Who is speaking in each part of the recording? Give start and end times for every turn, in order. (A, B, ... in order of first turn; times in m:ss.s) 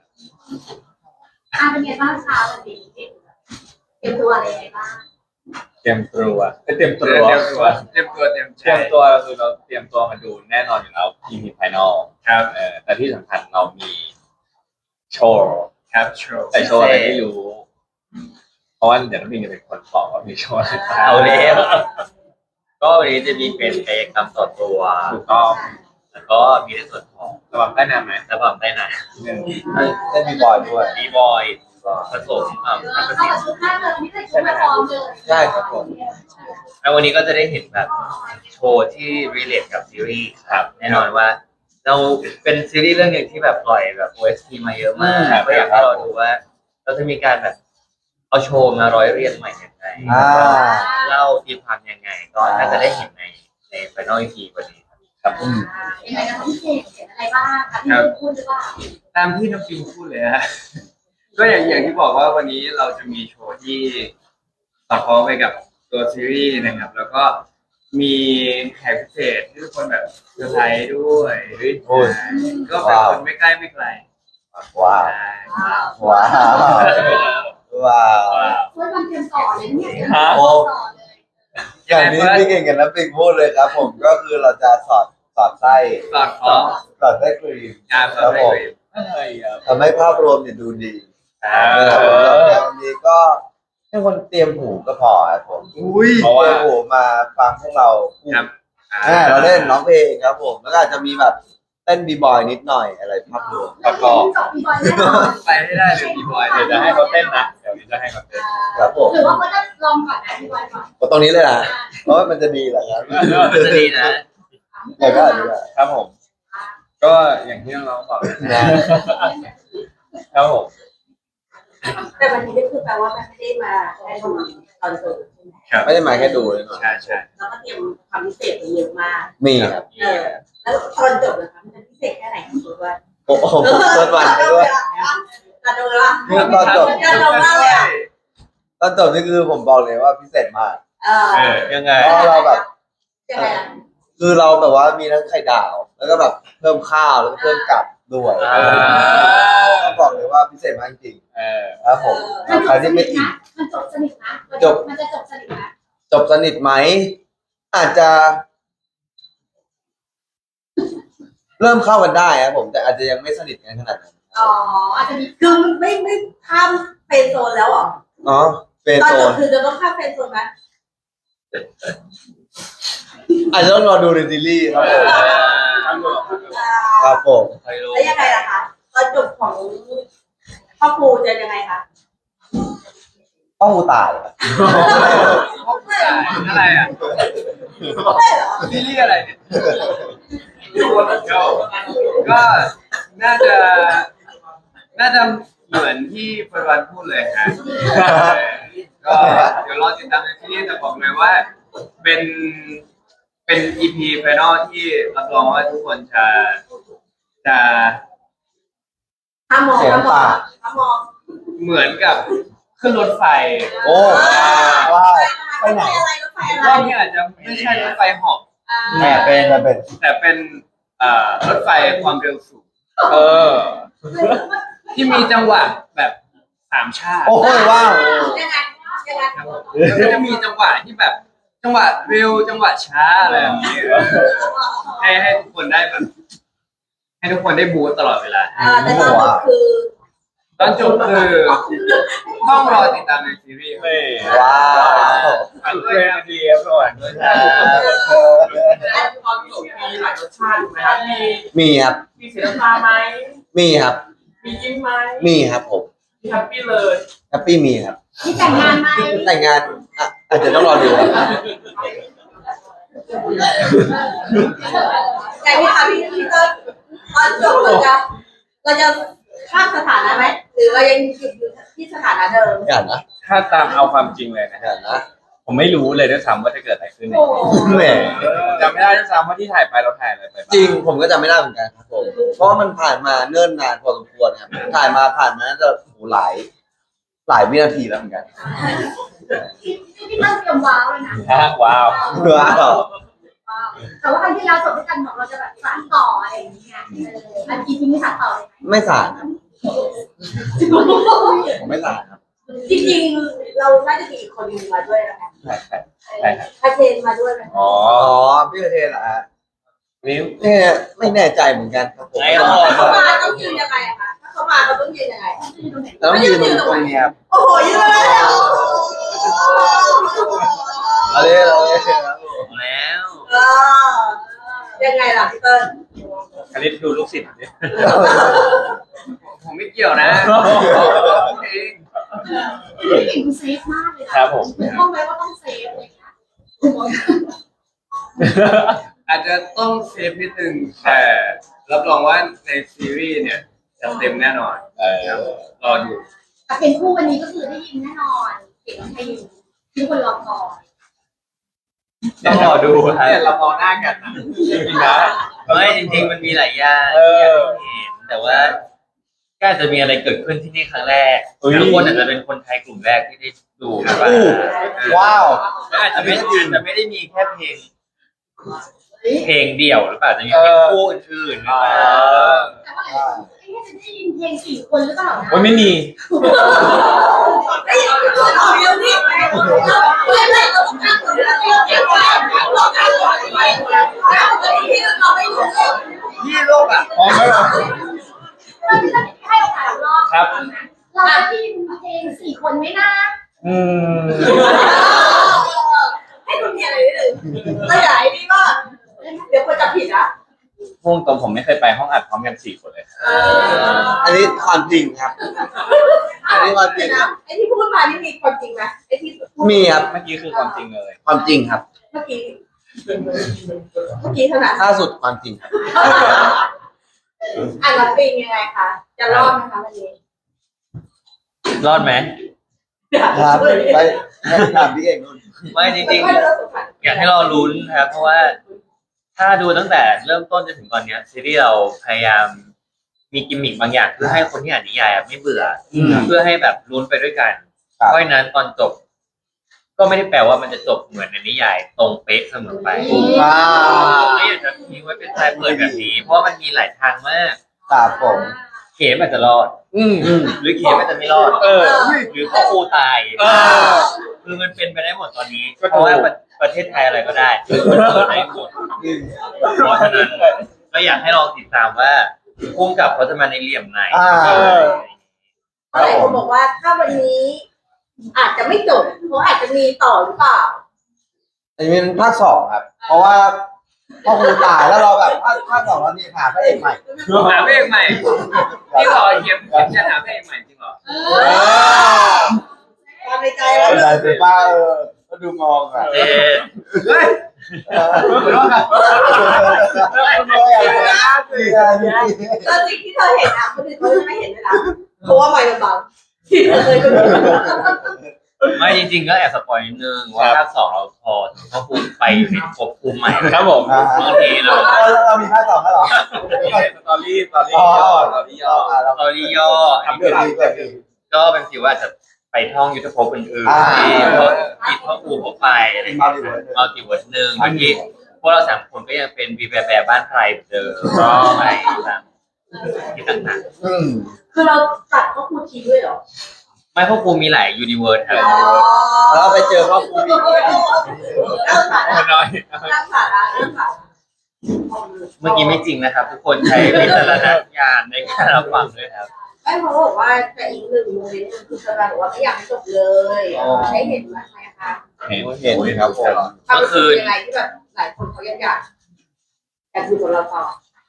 0:01.5-0:03.1 A
0:04.0-0:05.0 A
0:05.8-0:07.8 B
0:07.0-0:09.0 C
0:08.6-0:14.1 B
0:12.2-0:12.5 C
0:15.1-0:15.7 B
0:15.9-0:16.8 C
0:16.5-0:17.6 B
0:16.5-0:17.3 D
0:18.8-0:22.0 B
0:20.9-0:21.9 D
0:22.8-0:25.2 D
0:25.1-0:25.6 B
0:26.1-0:27.4 D
0:27.5-0:28.2 B
0:28.3-0:29.1 D
0:29.2-0:29.7 B
0:29.7-0:31.0 E
0:29.7-0:30.2 F
0:30.3-0:30.9 A
0:30.9-0:33.5 D
0:32.7-0:36.6 A
0:34.3-0:34.9 B
0:35.2-0:35.9 E
0:36.8-0:37.9 D
0:38.5-0:47.6 D
0:40.5-0:41.1 B
0:45.0-0:46.0 E
0:45.2-0:45.9 B
0:48.3-0:50.4 D
0:50.0-0:50.5 B
0:50.1-0:50.9 E
0:50.4-0:51.2 A
0:51.0-0:54.8 D
0:52.4-0:52.9 E
0:55.2-0:55.6 B
0:55.3-0:58.8 A
0:55.4-0:55.6 E
0:57.8-0:58.1 C
0:59.1-1:00.6 C
1:01.3-1:04.1 C
1:04.9-1:14.0 C
1:11.5-1:11.8 B
1:11.8-1:12.2 E
1:12.3-1:12.6 A
1:12.7-1:13.2 E
1:14.5-1:15.1 E
1:14.9-1:15.9 C
1:15.6-1:17.2 A
1:15.8-1:16.5 F
1:15.9-1:18.5 E
1:16.8-1:17.4 B
1:18.5-1:21.1 A
1:20.0-1:20.5 B
1:20.2-1:20.7 E
1:21.9-1:22.5 C
1:21.9-1:26.1 E
1:26.1-1:26.8 C
1:27.0-1:28.6 E
1:27.9-1:28.8 C
1:28.9-1:29.7 B
1:29.6-1:35.7 E
1:31.4-1:32.5 D
1:31.5-1:32.6 B
1:35.7-1:36.3 C
1:36.2-1:36.7 B
1:36.2-1:38.5 E
1:38.3-1:39.8 C
1:39.0-1:44.1 E
1:43.4-1:47.5 A
1:43.8-1:44.3 B
1:44.8-1:45.4 E
1:45.4-1:47.1 C
1:46.5-1:48.6 B
1:48.3-1:50.9 A
1:48.7-1:49.3 E
1:51.0-1:54.1 E
1:51.6-1:52.0 A
1:53.1-1:53.8 B
1:53.2-1:54.2 D
1:54.7-1:55.6 A
1:55.0-1:55.7 E
1:55.7-1:56.1 B
1:57.0-1:59.3 B
1:58.4-1:59.0 E
1:59.0-1:59.4 A
2:00.3-2:00.7 B
2:02.2-2:06.3 F
2:05.7-2:06.0 C
2:05.8-2:07.2 E
2:06.7-2:07.3 C
2:07.4-2:09.4 F
2:09.4-2:09.8 E
2:10.0-2:13.0 F
2:13.2-2:14.7 E
2:13.6-2:17.9 F
2:16.2-2:17.4 E
2:16.2-2:18.1 C
2:18.8-2:20.8 E
2:21.0-2:22.6 F
2:21.3-2:21.6 C
2:21.3-2:22.3 D
2:21.9-2:22.6 E
2:23.3-2:23.7 F
2:23.3-2:23.6 E
2:24.2-2:31.2 E
2:27.4-2:27.7 F
2:28.4-2:29.5 D
2:28.5-2:30.0 B
2:31.4-2:31.8 B
2:31.8-2:33.3 E
2:32.0-2:32.8 F
2:32.4-2:35.7 A
2:34.6-2:34.8 E
2:36.1-2:37.2 E
2:37.7-2:38.4 E
2:41.6-2:44.5 E
2:44.4-2:45.7 A
2:45.4-2:48.0 F
2:48.2-2:49.4 E
2:49.0-2:50.5 F
2:53.5-2:55.4 E
2:54.7-2:56.6 B
2:54.9-2:56.0 D
2:56.5-2:57.2 F
2:57.0-2:57.6 E
2:57.6-2:58.5 D
2:57.9-3:00.0 F
3:00.8-3:01.8 F
3:03.6-3:05.5 E
3:04.6-3:06.4 F
3:05.4-3:07.0 C
3:07.9-3:08.8 F
3:08.6-3:10.0 C
3:10.7-3:14.1 C
3:14.9-3:21.5 C
3:17.8-3:18.4 B
3:19.2-3:19.5 E
3:22.0-3:22.8 C
3:23.5-3:26.6 C
3:27.4-3:28.0 C
3:29.5-3:31.1 F
3:29.7-3:30.4 E
3:31.6-3:34.7 C
3:33.8-3:34.2 A
3:33.8-3:36.0 E
3:34.0-3:37.0 F
3:34.2-3:35.0 B
3:36.4-3:38.4 C
3:37.5-3:37.9 B
3:38.7-3:39.7 A
3:38.9-3:39.9 E
3:40.0-3:42.6 C
3:43.0-3:44.4 B
3:43.1-3:43.5 A
3:44.1-3:45.4 A
3:44.9-3:46.2 C
3:46.7-3:47.6 C
3:47.2-3:48.4 E
3:47.4-3:49.8 F
3:47.6-3:48.4 A
3:49.4-3:56.1 C
3:49.7-3:50.2 B
3:53.2-3:54.3 B
3:54.1-3:55.2 F
3:57.2-3:59.0 C
3:58.6-3:59.9 F
3:58.6-3:59.5 E
4:00.6-4:01.8 C
4:00.6-4:03.0 F
4:02.3-4:08.0 C
4:03.8-4:08.1 B
4:04.2-4:05.5 E
4:07.2-4:07.7 D
4:07.3-4:08.9 E
4:07.4-4:08.4 F
4:08.6-4:11.5 G
4:11.5-4:12.0 E
4:12.2-4:13.4 G
4:13.5-4:14.0 E
4:14.4-4:15.3 G
4:15.2-4:15.9 E
4:16.2-4:17.1 G
4:17.3-4:21.4 E
4:18.2-4:19.4 A
4:23.4-4:25.9 A
4:25.4-4:26.6 F
4:27.1-4:28.0 F
4:28.6-4:32.7 F
4:32.6-4:33.0 E
4:33.2-4:34.7 B
4:34.6-4:35.0 E
4:35.4-4:40.8 B
4:37.1-4:38.9 A
4:37.4-4:38.5 E
4:40.5-4:46.5 E
4:47.3-4:48.6 E
4:49.6-4:52.8 A
4:51.2-4:52.2 B
4:52.0-4:52.9 E
4:53.5-4:58.9 A
4:58.6-4:59.3 E
5:00.5-5:01.7 A
5:00.6-5:01.4 F
5:01.5-5:02.0 E
5:02.5-5:03.0 A
5:02.6-5:05.3 F
5:05.4-5:06.5 B
5:06.1-5:06.4 A
5:06.4-5:07.7 F
5:07.5-5:08.2 B
5:07.9-5:09.2 E
5:10.0-5:10.3 B
5:10.1-5:13.0 E
5:12.2-5:13.5 D
5:12.3-5:13.4 B
5:12.4-5:15.4 F
5:15.4-5:16.6 A
5:16.0-5:17.2 E
5:16.1-5:21.8 F
5:17.8-5:20.2 E
5:21.1-5:22.5 E
5:22.4-5:23.3 D
5:23.3-5:24.2 F
5:24.8-5:25.8 F
5:26.5-5:28.2 B
5:27.8-5:28.4 E
5:29.2-5:31.8 C
5:30.0-5:31.3 B
5:32.3-5:37.3 A
5:34.1-5:34.8 B
5:38.2-5:38.8 B
5:39.0-5:44.6 C
5:44.8-5:45.6 B
5:45.6-5:50.6 A
5:45.7-5:46.0 C
5:52.2-5:53.3 D
5:52.2-5:57.6 B
5:54.6-5:55.0 A
5:55.5-5:58.6 D
5:59.4-6:05.0 D
6:01.4-6:02.1 B
6:03.9-6:06.6 E
6:04.6-6:05.3 B
6:04.7-6:05.0 C
6:05.7-6:07.7 D
6:09.0-6:09.3 A
6:09.1-6:12.5 D
6:10.3-6:10.9 B
6:11.4-6:12.5 B
6:12.1-6:12.5 C
6:12.6-6:17.0 A
6:12.9-6:13.3 E
6:15.3-6:16.6 B
6:16.6-6:26.0 F
6:19.3-6:23.6 A
6:23.3-6:23.6 G
6:26.2-6:27.1 C
6:26.9-6:27.8 B
6:27.3-6:27.6 A
6:28.6-6:33.2 A
6:30.1-6:30.4 B
6:31.0-6:31.3 F
6:33.4-6:34.7 B
6:34.2-6:38.6 F
6:39.0-6:39.3 A
6:39.3-6:40.1 F
6:40.8-6:44.0 B
6:43.0-6:44.4 F
6:43.2-6:44.1 A
6:43.8-6:45.2 E
6:45.5-6:50.6 F
6:46.2-6:47.1 E
6:49.4-6:49.9 E
6:49.8-6:51.0 B
6:51.0-6:51.6 E
6:51.9-6:52.4 F
6:53.8-6:54.7 F
6:54.6-6:56.4 E
6:55.6-6:56.4 F
6:57.4-6:59.9 F
7:01.5-7:02.2 D
7:02.9-7:04.0 F
7:03.1-7:05.4 E
7:05.5-7:06.3 D
7:05.6-7:07.3 F
7:06.8-7:08.4 D
7:09.2-7:12.5 D
7:13.1-7:18.8 D
7:15.7-7:16.1 B
7:15.7-7:16.1 E
7:19.8-7:27.4 D
7:22.7-7:24.0 A
7:22.9-7:24.3 E
7:25.2-7:25.9 E
7:27.7-7:28.3 E
7:27.7-7:28.4 A
7:28.8-7:38.5 D
7:29.7-7:30.3 B
7:30.0-7:30.4 E
7:31.4-7:32.0 B
7:31.4-7:32.5 F
7:31.7-7:32.1 E
7:33.2-7:33.9 B
7:33.2-7:33.8 F
7:35.6-7:36.1 B
7:37.5-7:38.5 B
7:38.8-7:39.5 E
7:39.4-7:40.5 B
7:39.4-7:45.0 D
7:43.9-7:44.7 E
7:44.2-7:44.8 B
7:45.7-7:47.4 F
7:45.7-7:46.2 E
7:48.1-7:50.6 F
7:51.6-7:53.5 E
7:54.0-7:56.8 E
7:56.9-7:57.7 F
7:57.0-7:57.7 B
7:57.2-8:00.8 C
7:58.1-7:59.7 E
8:00.9-8:01.9 A
8:01.0-8:02.4 F
8:01.1-8:02.4 B
8:03.0-8:04.1 F
8:03.5-8:04.2 B
8:03.6-8:04.1 C
8:03.6-8:06.1 E
8:05.9-8:06.4 B
8:05.9-8:06.5 D
8:06.7-8:07.2 C
8:07.7-8:12.6 E
8:08.0-8:12.2 B
8:12.4-8:17.9 F
8:17.1-8:17.5 E
8:18.5-8:25.0 D
8:23.2-8:24.0 B
8:23.6-8:26.7 E
8:26.0-8:28.8 B
8:27.4-8:30.8 E
8:28.9-8:30.4 D
8:29.8-8:30.8 B
8:31.1-8:42.0 D
8:33.4-8:34.4 E
8:33.7-8:34.6 C
8:34.2-8:35.2 F
8:35.8-8:36.7 E
8:37.4-8:37.8 B
8:40.9-8:41.4 B
8:42.7-8:43.4 D
8:43.6-8:44.1 E
8:44.3-8:46.0 F
8:46.7-8:48.7 D
8:48.1-8:48.7 B
8:48.1-8:53.8 F
8:49.0-8:51.4 E
8:51.4-8:52.8 B
8:54.5-8:55.6 F
8:55.2-8:59.1 D
8:56.6-8:57.4 B
8:59.4-9:04.8 F
9:03.3-9:03.9 E
9:03.4-9:03.9 B
9:05.0-9:06.4 B
9:05.1-9:06.3 E
9:06.5-9:08.6 F
9:06.5-9:07.2 D
9:09.7-9:10.6 F